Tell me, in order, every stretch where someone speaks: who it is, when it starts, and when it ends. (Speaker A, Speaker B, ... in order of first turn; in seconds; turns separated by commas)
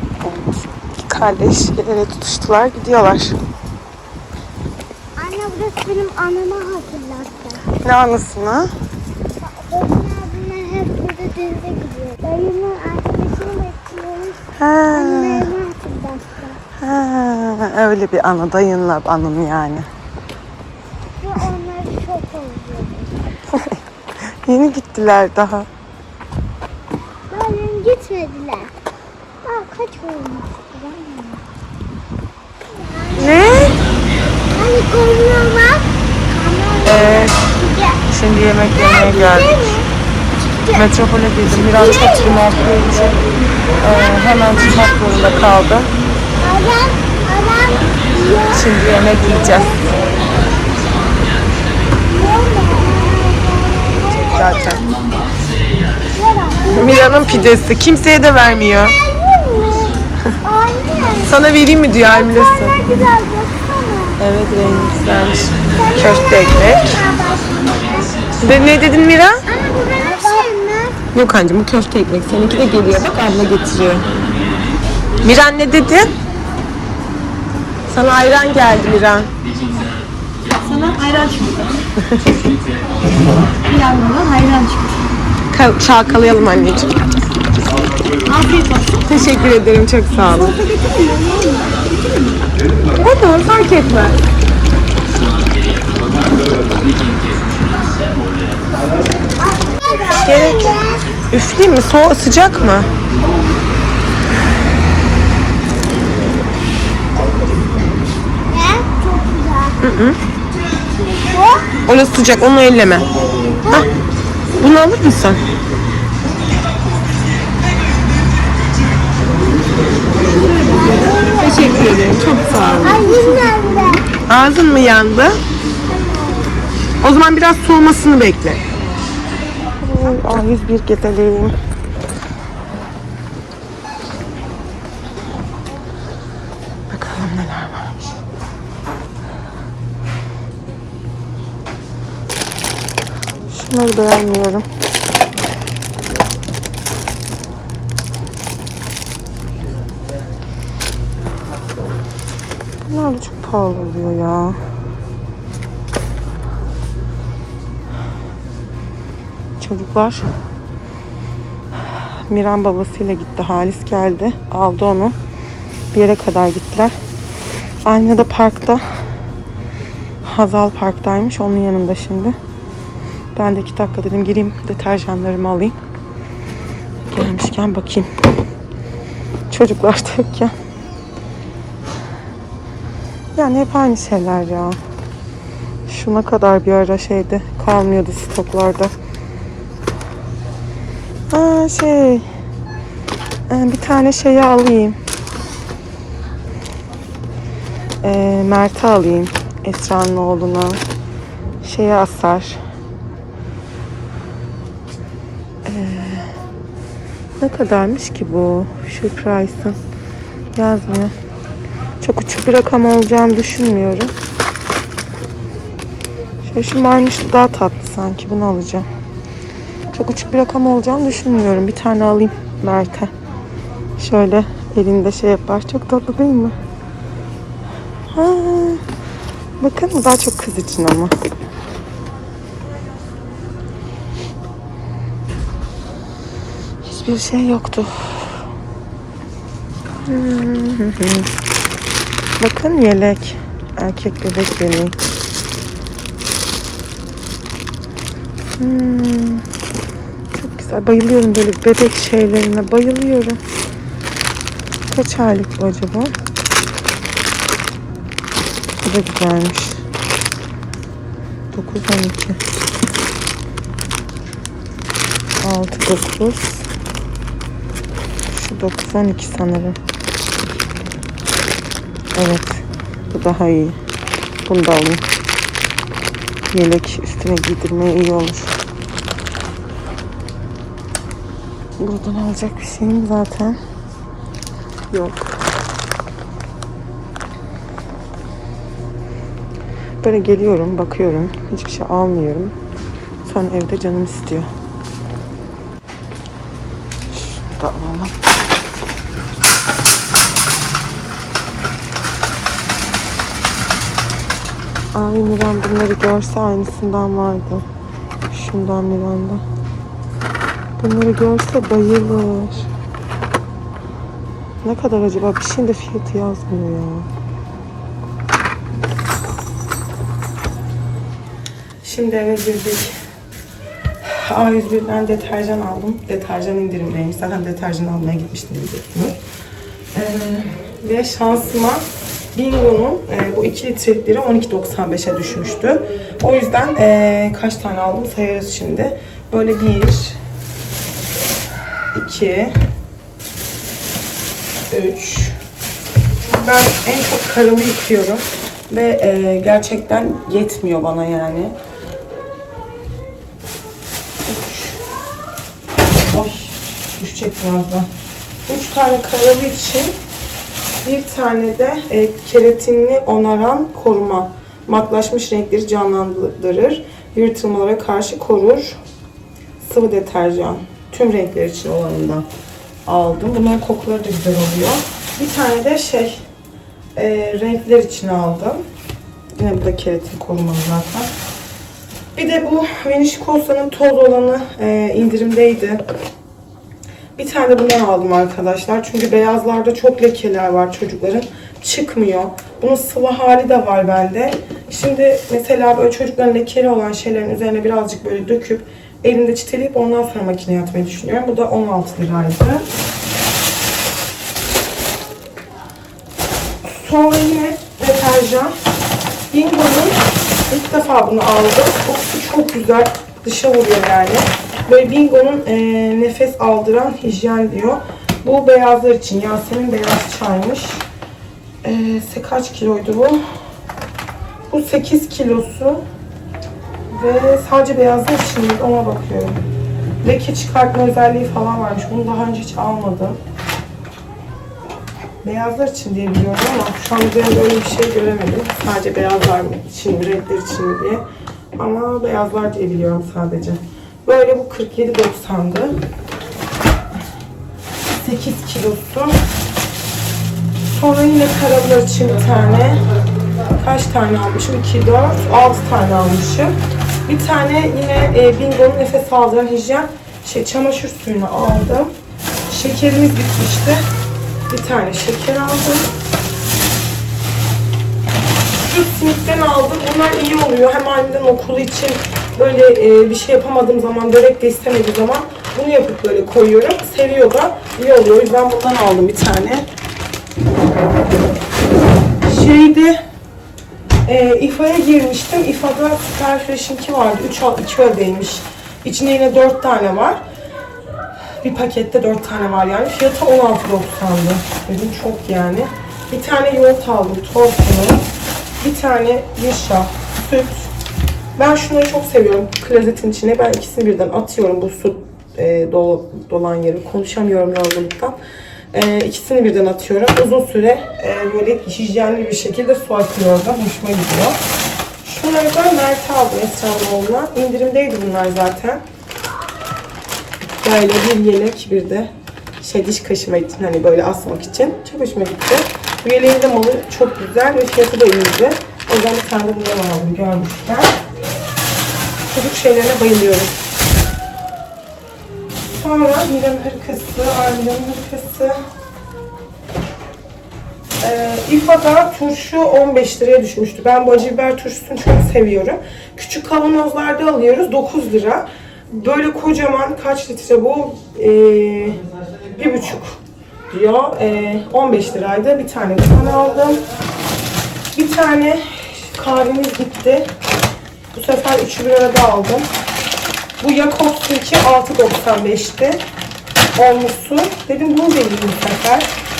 Speaker A: 0.2-3.4, Speaker B: 5.2-7.6, Speaker A: 7.7-8.7, Speaker B: 9.4-16.6, Speaker A: 14.5-15.5, Speaker A: 16.8-19.9, Speaker B: 21.2-23.1, Speaker A: 23.5-23.8, Speaker A: 24.4-25.7, Speaker B: 27.3-28.7, Speaker B: 29.4-31.4, Speaker B: 32.7-33.7, Speaker A: 33.1-33.8, Speaker B: 34.4-38.0, Speaker A: 36.8-37.4, Speaker A: 38.1-39.8, Speaker B: 38.7-40.9, Speaker A: 40.7-43.2, Speaker B: 41.5-42.8, Speaker A: 43.8-45.9, Speaker B: 46.4-48.6, Speaker A: 48.5-49.9, Speaker B: 49.4-50.0, Speaker B: 52.0-55.0, Speaker A: 54.0-54.8, Speaker B: 56.1-57.6, Speaker A: 56.7-59.0, Speaker B: 58.9-64.2, Speaker A: 61.2-62.9, Speaker A: 64.2-67.0, Speaker B: 65.7-68.3, Speaker A: 68.4-69.5, Speaker B: 69.5-71.0, Speaker A: 71.1-74.1, Speaker A: 75.2-76.1, Speaker A: 77.9-79.3, Speaker C: 80.5-81.8, Speaker A: 82.0-82.4, Speaker C: 83.7-85.0, Speaker A: 85.5-87.0, Speaker C: 88.3-88.9, Speaker A: 88.9-90.5, Speaker B: 90.4-91.8, Speaker A: 93.0-94.2, Speaker B: 99.4-101.0, Speaker A: 100.1-102.9, Speaker B: 108.5-109.8, Speaker A: 109.8-110.2, Speaker B: 111.0-111.7, Speaker A: 111.8-113.1, Speaker A: 114.6-115.4, Speaker B: 120.2-121.7, Speaker C: 120.4-120.9, Speaker A: 120.9-123.0, Speaker B: 122.8-124.1, Speaker A: 124.2-125.4, Speaker B: 125.9-126.5, Speaker A: 127.0-128.6, Speaker A: 129.8-131.6, Speaker A: 136.9-138.1, Speaker A: 143.5-144.7, Speaker A: 152.8-154.6, Speaker A: 159.6-160.3, Speaker A: 161.9-165.2, Speaker A: 165.9-166.9, Speaker A: 167.8-168.8, Speaker A: 170.2-172.4, Speaker A: 173.3-175.8, Speaker A: 177.1-178.1, Speaker A: 179.5-180.5, Speaker A: 183.3-184.8, Speaker A: 185.9-188.9, Speaker A: 191.3-192.2, Speaker A: 193.5-195.0, Speaker A: 198.0-200.8, Speaker A: 201.6-202.6, Speaker A: 205.7-206.4, Speaker A: 207.4-209.8, Speaker A: 210.5-211.1, Speaker A: 212.0-214.1, Speaker A: 216.4-218.9, Speaker A: 219.9-223.1, Speaker A: 224.0-226.6, Speaker A: 228.1-228.8, Speaker A: 229.6-231.1, Speaker A: 236.8-238.4, Speaker A: 240.0-241.3, Speaker A: 242.4-245.0, Speaker A: 248.6-249.4, Speaker A: 250.3-253.4, Speaker A: 254.9-256.1, Speaker A: 258.8-259.8, Speaker A: 261.5-262.4, Speaker A: 265.4-266.7, Speaker A: 268.3-269.8, Speaker A: 272.1-273.8, Speaker A: 274.4-275.0, Speaker A: 276.5-278.5, Speaker A: 281.8-283.6, Speaker A: 284.9-285.3, Speaker A: 290.0-292.5, Speaker A: 293.2-294.5, Speaker A: 297.1-298.1, Speaker A: 304.9-307.6, Speaker A: 308.3-309.4, Speaker A: 310.8-312.7, Speaker A: 314.6-317.1, Speaker A: 321.8-322.9, Speaker A: 324.0-329.2, Speaker A: 329.9-340.2, Speaker A: 341.9-342.5, Speaker A: 344.7-345.4, Speaker A: 346.3-351.5, Speaker A: 354.2-354.8, Speaker A: 356.1-357.9, Speaker A: 358.4-359.9, Speaker A: 360.8-368.8, Speaker A: 369.6-372.2, Speaker A: 372.9-376.2, Speaker A: 376.9-378.6, Speaker A: 379.4-381.1, Speaker A: 382.1-385.8, Speaker A: 387.1-402.6, Speaker A: 406.6-408.5, Speaker A: 409.3-420.8, Speaker A: 421.6-423.2, Speaker A: 424.5-425.8, Speaker A: 426.9-429.4, Speaker A: 430.0-433.2, Speaker A: 435.2-445.8, Speaker A: 447.9-449.2, Speaker A: 450.7-452.8, Speaker A: 453.5-461.9, Speaker A: 462.5-463.8, Speaker A: 464.5-465.9, Speaker A: 468.6-479.7, Speaker A: 482.2-483.0, Speaker A: 484.0-490.2, Speaker A: 491.4-498.0, Speaker A: 498.6-500.7, Speaker A: 501.4-508.2, Speaker A: 508.7-514.4, Speaker A: 515.0-518.8, Speaker A: 520.5-530.9, Speaker A: 532.3-533.6, Speaker A: 535.7-538.6, Speaker A: 541.0-556.8, Speaker A: 557.9-560.3, Speaker A: 561.1-562.7, Speaker A: 563.6-566.0, Speaker A: 566.7-569.1